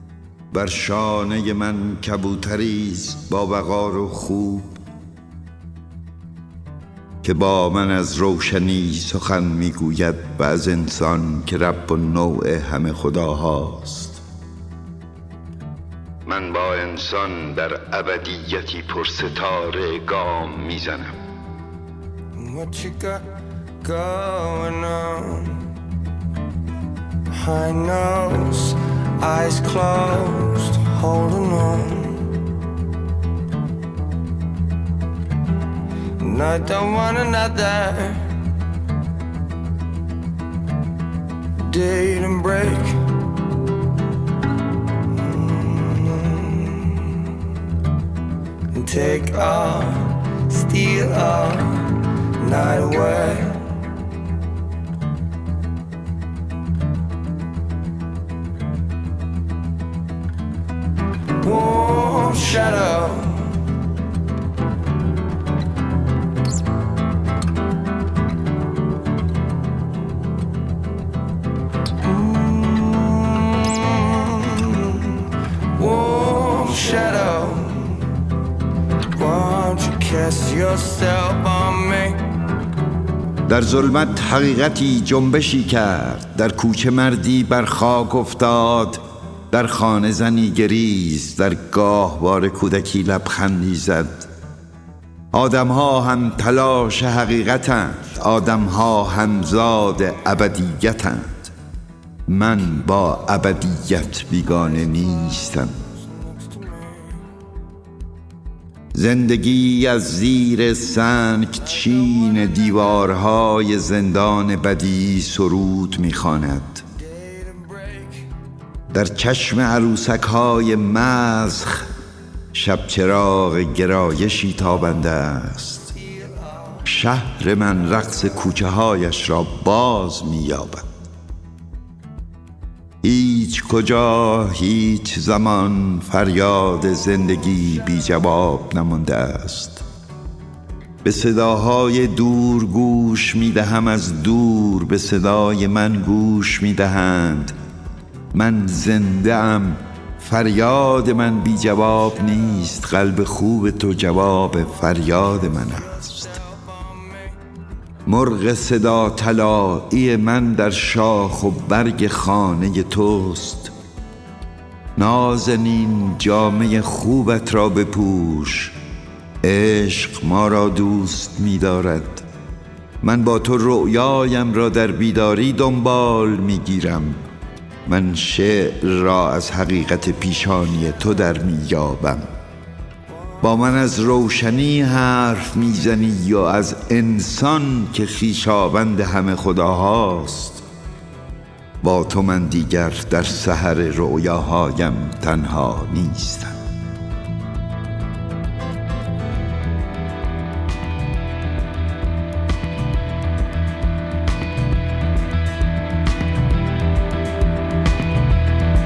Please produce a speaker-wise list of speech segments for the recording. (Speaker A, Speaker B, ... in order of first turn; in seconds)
Speaker A: 0.5-4.8, 7.2-14.2, 16.2-21.1, 83.5-94.3, 95.3-101.5, 102.3-105.7, 108.9-116.8, 118.9-121.9, 122.5-125.9, 126.8-130.9, 133.0-139.8, 141.0-147.5, 148.3-156.4, 158.1-163.7, 164.9-168.7, 169.4-172.2, 173.0-177.2, 177.8-182.3, 183.4-190.6, 191.8-196.6
Speaker B: 22.4-23.3, 23.8-25.7, 27.3-32.3, 36.2-38.3, 41.5-43.1, 45.1-47.1, 48.7-53.7, 61.4-63.6, 72.0-78.1, 79.1-82.2, 106.5-106.8, 117.0-118.2, 126.2-126.8